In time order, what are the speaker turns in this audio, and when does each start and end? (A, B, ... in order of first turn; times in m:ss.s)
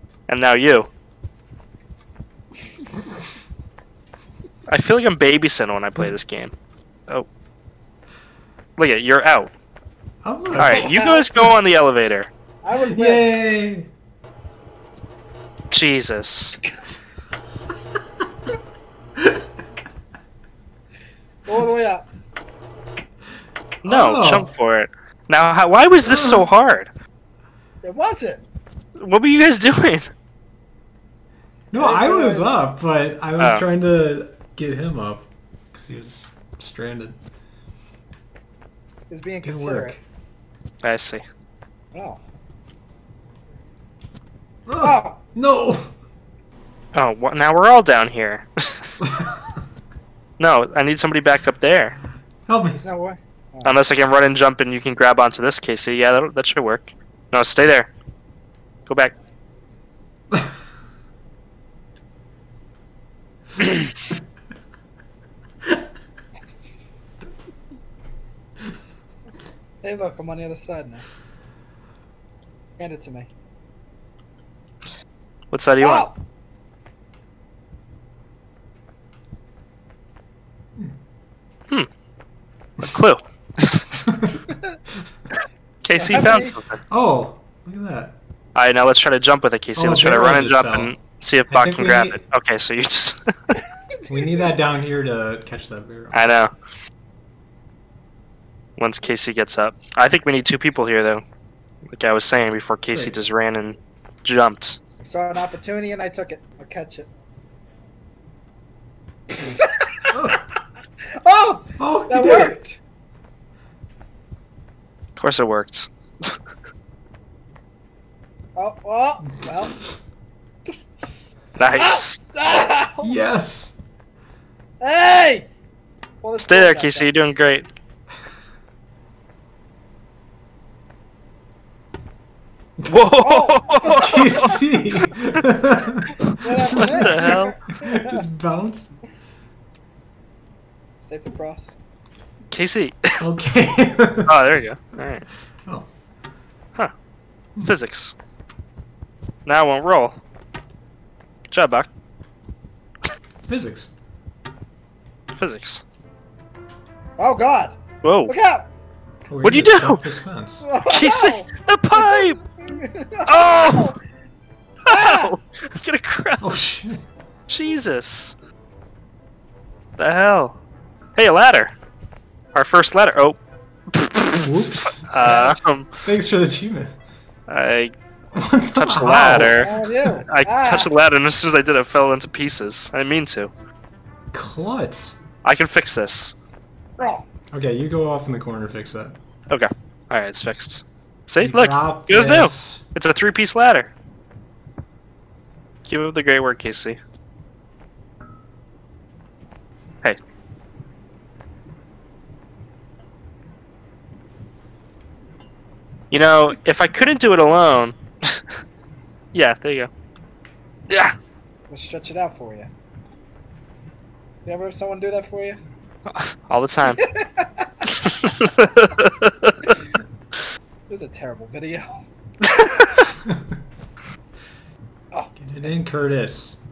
0:00.3-0:00.9 A
0:04.7-0:06.5 A
0:08.8-0:09.5 A
0:10.2-0:10.9 B
0:10.5-0:12.3 A
0:10.7-0:11.3 C
0:12.6-0:13.4 C
0:12.8-0:13.9 B
0:15.7-0:16.6 A
0:21.5-0:22.1 C
0:23.8-0:24.5 B
0:23.8-0:26.9 A
0:26.0-0:26.5 B
0:27.8-0:28.4 C
0:29.0-0:30.1 A
0:31.7-0:37.2 B
0:31.8-0:32.6 C
0:33.4-0:33.6 A
0:39.1-0:40.0 C
0:39.4-0:40.0 B
0:40.8-0:41.2 A
0:41.9-0:42.2 C
0:44.7-0:45.9 B
0:44.8-0:45.2 C
0:47.0-0:49.0 A
0:49.0-0:49.3 B
0:50.4-0:52.0 A
0:52.5-0:52.8 B
0:52.7-0:53.8 C
0:53.6-0:57.9 A
0:58.9-0:59.1 A
1:09.8-1:11.1 C
1:12.8-1:13.3 C
1:15.5-1:16.1 A
1:15.8-1:16.2 C
1:22.8-1:24.0 A
1:24.1-1:24.3 B
1:24.5-1:24.8 C
1:25.8-1:26.8 A
1:26.0-1:26.6 C
1:26.9-1:28.2 B
1:28.6-1:33.6 A
1:29.8-1:31.0 B
1:31.5-1:32.2 B
1:34.1-1:36.2 B
1:36.1-1:36.5 A
1:38.8-1:41.2 A
1:41.9-1:44.8 A
1:45.0-1:47.1 C
1:49.3-1:50.1 C
1:50.1-1:50.4 B
1:51.2-1:52.8 C
1:51.8-1:52.6 B
1:55.2-1:56.3 A
1:58.6-1:59.8 C
2:01.6-2:02.2 A
2:01.7-2:03.1 C
2:03.0-2:03.8 B
2:04.8-2:05.5 C
2:06.2-2:07.2 C
2:06.4-2:07.7 A
2:12.8-2:15.0 A
2:13.2-2:14.6 C
2:13.9-2:19.0 B
2:16.2-2:17.7 A
2:16.4-2:18.2 C
2:21.0-2:21.8 C
2:22.5-2:23.2 A
2:23.2-2:24.3 B
2:24.3-2:25.2 A
2:27.6-2:28.1 A
2:29.5-2:30.2 A
2:31.5-2:31.9 A
2:33.4-2:33.9 B
2:35.4-2:35.8 A
2:37.2-2:38.7 C
2:38.0-2:38.3 A
2:39.3-2:40.6 B
2:39.4-2:40.2 A
2:40.6-2:44.0 C
2:40.9-2:42.4 A
2:43.3-2:44.0 A
2:44.9-2:45.4 C
2:44.9-2:46.5 A
2:46.4-2:47.0 B
2:47.5-2:48.4 A
2:50.0-2:50.6 A
2:51.2-2:51.7 A
2:52.6-2:53.4 A
2:53.9-2:55.9 A
2:54.4-2:55.1 B
2:55.2-2:55.6 C
2:56.0-2:56.9 B
2:57.5-2:57.9 A
2:58.3-2:59.7 B
2:58.7-3:03.5 A
2:59.4-3:00.9 C
3:04.3-3:05.2 B
3:05.4-3:06.4 A
3:07.0-3:07.3 C
3:07.5-3:09.2 B
3:09.5-3:13.9 A
3:11.4-3:12.8 B
3:15.8-3:17.0 A
3:26.1-3:28.4 A
3:29.3-3:29.9 A
3:30.9-3:31.2 A
3:31.7-3:32.7 C
3:34.4-3:35.6 C
3:36.1-3:37.0 A
3:36.9-3:37.7 C
3:37.9-3:39.6 A
3:40.9-3:42.0 C
3:42.4-3:43.1 A
3:45.4-3:46.6 B